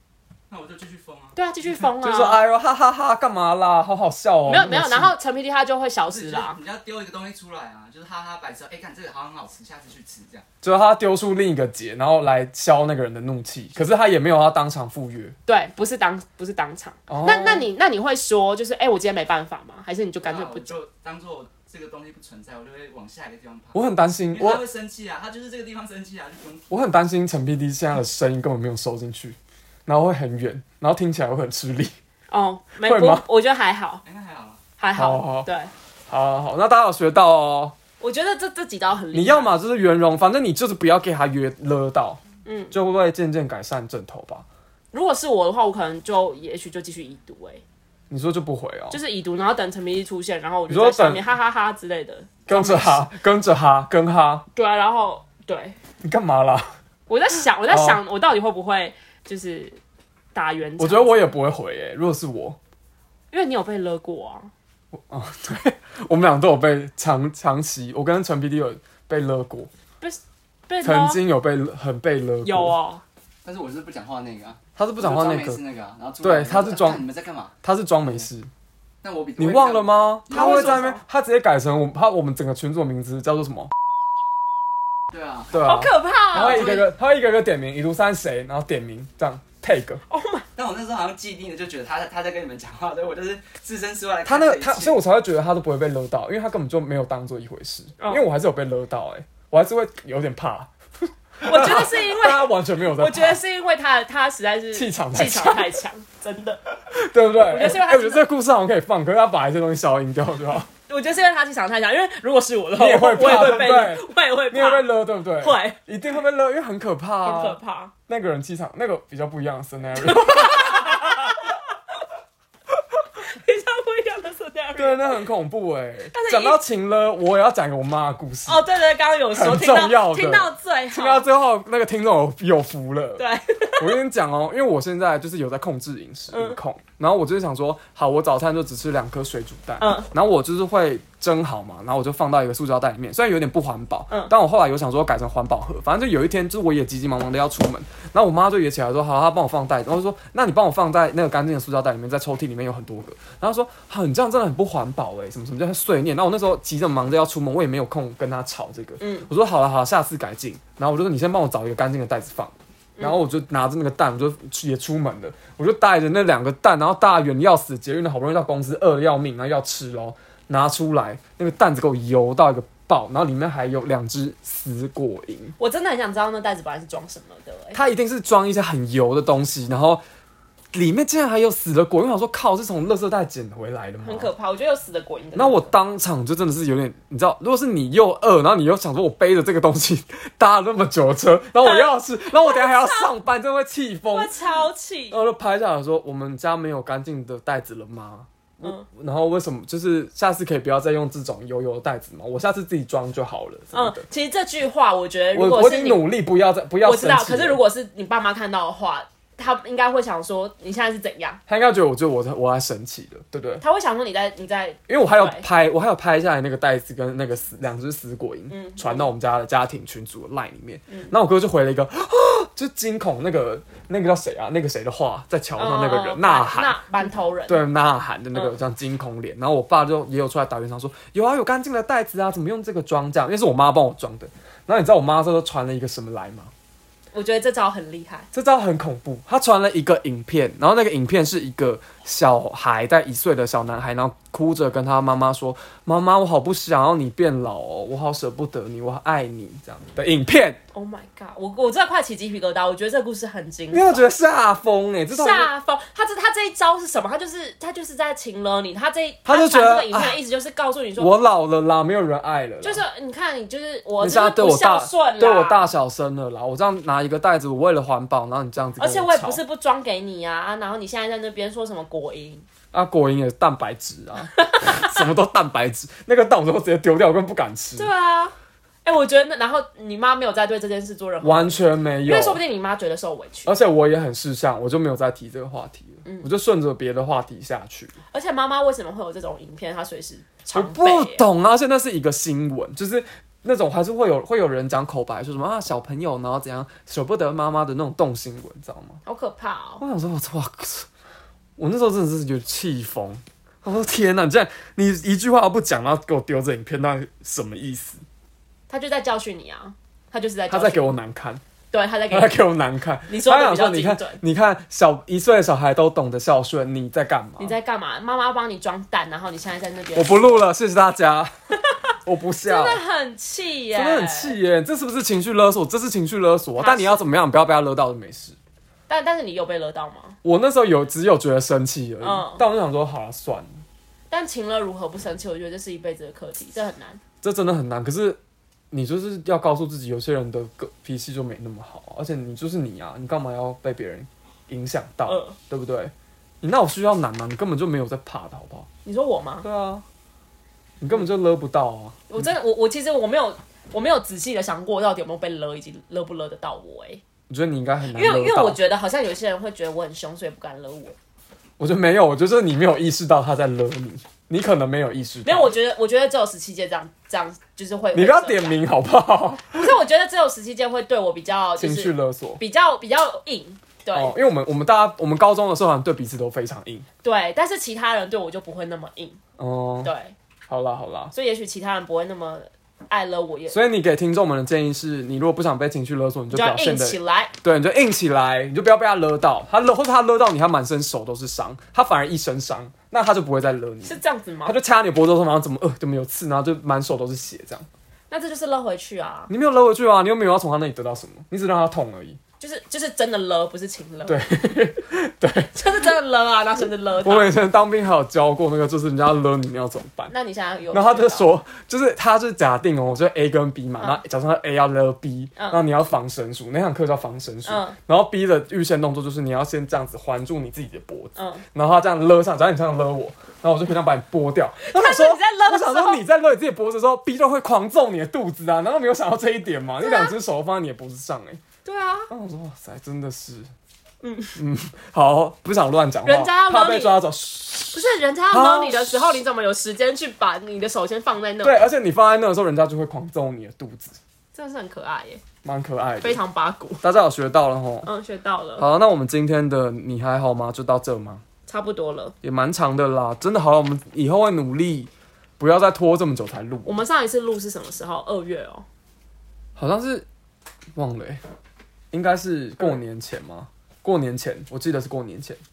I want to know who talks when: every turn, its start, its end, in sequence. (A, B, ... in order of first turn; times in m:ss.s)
0:00.5-0:01.3 A
0:01.3-0:02.4 B
0:01.8-0:05.1 C
0:04.5-0:06.6 B
0:06.1-0:10.4 A
0:10.6-0:15.4 C
0:15.4-0:20.8 B
0:17.1-0:17.7 C
0:20.2-0:26.7 A
0:23.7-0:24.6 C
0:26.7-0:31.9 C
0:32.3-0:34.0 B
0:32.8-0:33.2 C
0:34.0-0:34.6 A
0:34.8-0:35.7 B
0:34.9-0:35.5 C
0:36.1-0:37.7 C
0:38.0-0:39.6 B
0:39.1-0:44.4 C
0:42.4-0:42.7 B
0:44.9-0:47.6 B
0:48.1-0:49.0 C
0:48.9-0:53.0 B
0:50.7-0:51.2 C
0:52.5-0:54.4 C
0:54.5-0:55.8 B
0:56.0-0:56.7 C
0:57.1-0:59.8 B
0:57.7-0:58.0 C
1:00.3-1:01.3 B
1:00.8-1:02.6 C
1:03.3-1:04.5 B
1:04.9-1:09.7 C
1:10.0-1:11.2 B
1:10.8-1:12.8 C
1:12.4-1:13.0 B
1:13.4-1:17.5 A
1:14.8-1:15.6 C
1:16.2-1:17.0 C
1:17.6-1:18.5 C
1:19.0-1:20.8 A
1:19.4-1:23.7 C
1:20.3-1:21.0 B
1:25.1-1:25.6 A
1:25.5-1:30.0 C
1:25.5-1:26.8 B
1:26.3-1:26.8 A
1:30.1-1:30.4 B
1:30.6-1:35.0 A
1:34.2-1:43.4 C
1:41.4-1:46.6 B
1:44.7-1:45.7 C
1:46.9-1:50.7 C
1:47.4-1:48.3 B
1:50.9-1:55.8 B
1:52.8-2:01.4 C
1:57.2-1:57.9 B
2:00.0-2:01.6 B
2:03.2-2:05.2 B
2:04.8-2:08.6 C
2:06.1-2:06.6 B
2:08.5-2:11.3 B
2:09.3-2:13.2 C
2:13.2-2:14.0 B
2:13.8-2:55.5 C
2:16.3-2:16.6 B
2:19.8-2:20.1 B
2:39.0-2:39.3 B
2:43.0-2:43.2 B
2:55.6-2:57.8 B
2:57.7-3:00.0 C
3:00.7-3:04.3 C
3:04.0-3:05.7 B
3:05.3-3:14.3 C
3:11.6-3:13.1 B
3:14.1-3:15.2 B
3:15.1-3:24.0 C
3:23.7-3:26.1 B
3:25.3-3:27.6 C
3:26.8-3:31.4 B
3:31.5-3:33.6 C
3:33.6-3:35.4 B
3:34.9-3:46.8 C
3:38.5-3:39.1 B
3:45.6-3:47.6 B
3:47.5-3:56.5 C
3:57.1-3:58.3 B
3:58.3-4:10.6 C
4:10.7-4:14.1 B
4:13.7-4:15.5 C
4:15.1-4:21.1 B
4:19.2-4:20.2 C
4:21.0-4:22.8 C
4:22.6-4:25.6 B
4:24.0-4:29.4 C
4:28.8-4:32.4 B
4:32.7-4:37.9 C
4:34.4-4:34.8 B
4:37.8-4:38.3 B
4:38.8-4:43.5 B
4:41.2-4:42.4 C
4:43.4-4:47.9 C
4:48.1-4:51.2 B
4:50.5-4:59.0 C
4:59.0-4:59.8 B
4:59.8-5:00.9 C
5:01.6-5:08.0 C
5:08.7-5:10.9 B
5:10.5-5:11.4 C
5:11.7-5:12.4 B
5:12.1-5:17.6 C
5:13.1-5:14.2 B
5:17.4-5:20.4 B
5:20.0-5:21.3 C
5:22.0-5:22.8 C
5:22.4-5:24.4 B
5:23.7-5:28.4 C
5:26.6-5:27.0 B
5:28.9-5:30.2 B
5:30.2-5:33.6 C
5:32.0-5:32.4 B
5:34.1-5:37.0 B
5:37.2-5:38.2 C
5:38.7-5:48.7 C
5:45.1-5:45.4 B
5:48.8-5:49.4 B
5:49.4-5:49.8 C
5:50.8-5:52.2 C
5:52.1-5:57.0 B
5:57.3-5:58.6 C
5:57.9-6:01.0 B
6:01.6-6:05.5 C
6:05.2-6:08.6 B
6:07.9-6:09.8 C
6:09.5-6:14.1 B
6:11.6-6:12.4 C
6:13.9-6:16.9 C
6:17.0-6:19.2 B
6:19.4-6:19.9 C
6:19.8-6:20.1 B
6:20.5-6:21.1 C
6:21.1-6:23.6 B
6:23.5-6:37.7 C
6:26.3-6:27.3 B
6:33.8-6:34.6 B
6:38.1-6:39.3 B
6:39.3-6:42.2 C
6:42.4-6:44.2 B
6:44.0-6:45.5 C
6:45.5-6:47.3 B
6:47.0-6:50.1 C
6:50.1-6:51.3 B
6:50.7-7:11.4 C
6:55.4-6:55.6 B
6:57.4-6:57.8 B
7:01.2-7:01.4 B
7:04.6-7:06.0 B
7:09.8-7:10.1 B
7:11.6-7:12.1 B
7:12.1-7:13.5 C
7:14.0-7:14.4 B
7:14.4-7:19.2 C
7:16.0-7:17.0 B
7:17.7-7:21.6 B
7:21.4-7:24.0 C
7:24.3-7:25.2 B
7:25.4-7:26.2 C
7:26.0-7:26.8 B
7:26.8-7:27.9 C
7:27.8-7:28.7 B
7:28.6-7:31.2 C
7:31.5-7:32.1 B
7:32.2-7:36.8 C
7:36.6-7:38.6 B
7:39.6-7:40.1 C
7:40.7-7:41.2 C
7:41.9-7:45.4 C